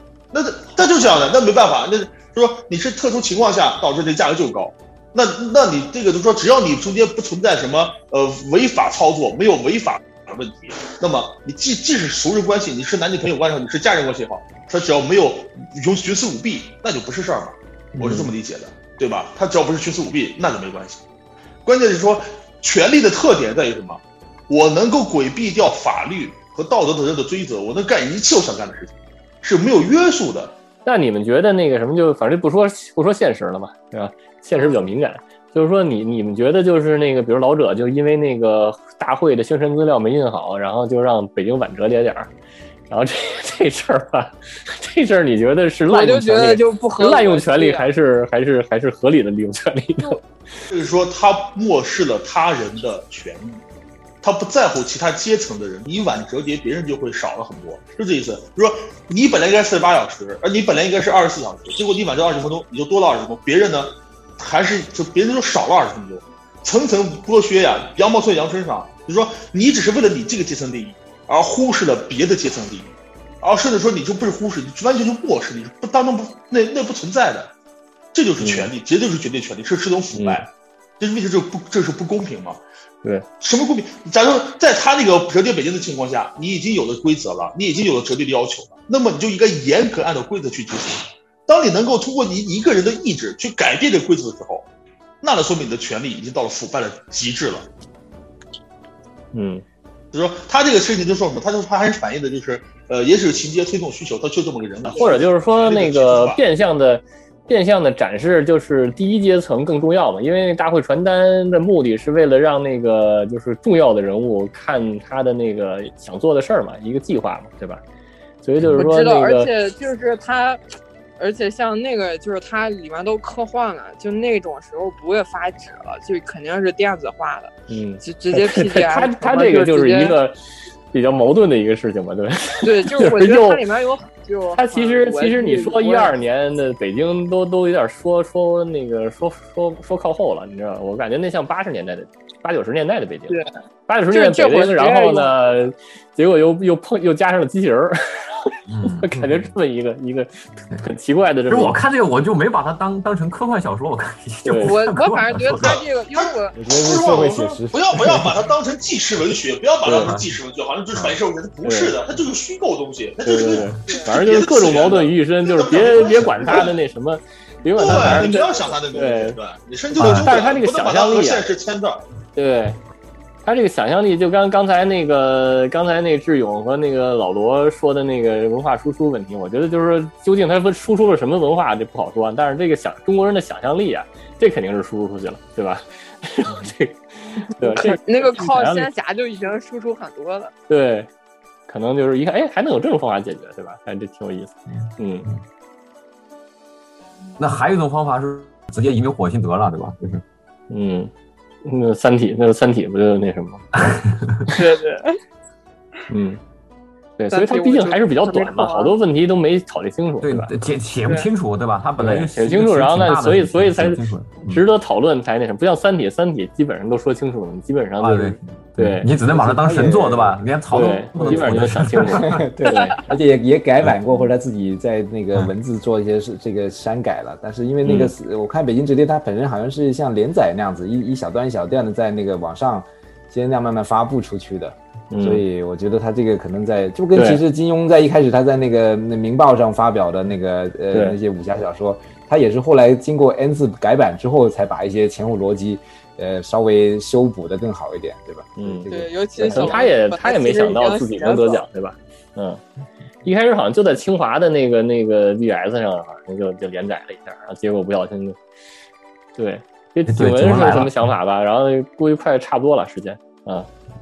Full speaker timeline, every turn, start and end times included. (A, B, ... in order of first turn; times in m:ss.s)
0:00.3-0:21.0 A
0:17.9-0:18.3 B
0:21.6-0:30.6 A
0:30.8-0:42.3 B
0:42.9-0:50.2 B
0:45.9-0:47.9 C
0:50.7-0:53.6 A
0:54.2-1:17.5 A
1:18.1-1:22.6 A
1:18.4-1:18.7 B
1:20.1-1:20.4 B
1:23.4-1:34.7 A
1:35.2-1:37.7 A
1:39.3-1:39.6 B
1:40.1-1:46.4 A
1:45.0-1:57.8 B
1:58.4-1:59.5 B
1:58.7-2:00.7 C
2:01.2-2:10.2 C
2:07.7-2:10.4 B
2:10.9-2:13.6 B
2:12.6-2:16.1 C
2:14.5-2:31.8 B
2:24.1-2:25.4 C
2:28.7-2:29.4 D
2:31.5-2:35.8 D
2:34.4-2:34.8 B
2:34.6-2:36.6 C
2:35.6-2:46.7 A
2:36.6-2:38.3 E
2:39.8-2:40.1 B
2:40.0-2:40.3 D
2:41.6-2:42.0 B
2:43.2-2:49.4 B
2:43.8-2:44.2 C
2:47.7-2:52.0 A
2:47.9-2:48.2 D
2:50.0-2:50.3 D
2:50.0-2:51.5 B
2:52.3-2:52.8 B
2:53.4-3:08.9 B
3:07.6-3:10.5 C
3:10.7-3:11.1 B
3:11.7-3:15.3 B
3:17.4-3:20.2 D
3:20.7-3:21.1 B
3:21.6-3:23.6 B
3:23.8-3:24.5 D
3:24.5-3:25.2 C
3:26.1-3:26.4 B
3:27.2-3:30.5 B
3:27.3-3:28.9 C
3:30.2-3:34.6 D
3:32.0-3:39.1 B
3:38.0-3:42.4 D
3:39.3-4:09.8 E
3:40.7-3:43.0 B
3:47.8-3:48.1 B
3:55.1-3:55.4 B
3:57.1-3:57.4 B
4:00.9-4:01.2 B
4:08.6-4:08.9 B
4:08.9-4:11.6 C
4:09.4-4:12.6 B
4:13.2-4:18.4 B
4:19.4-4:23.7 B
4:20.1-4:21.0 D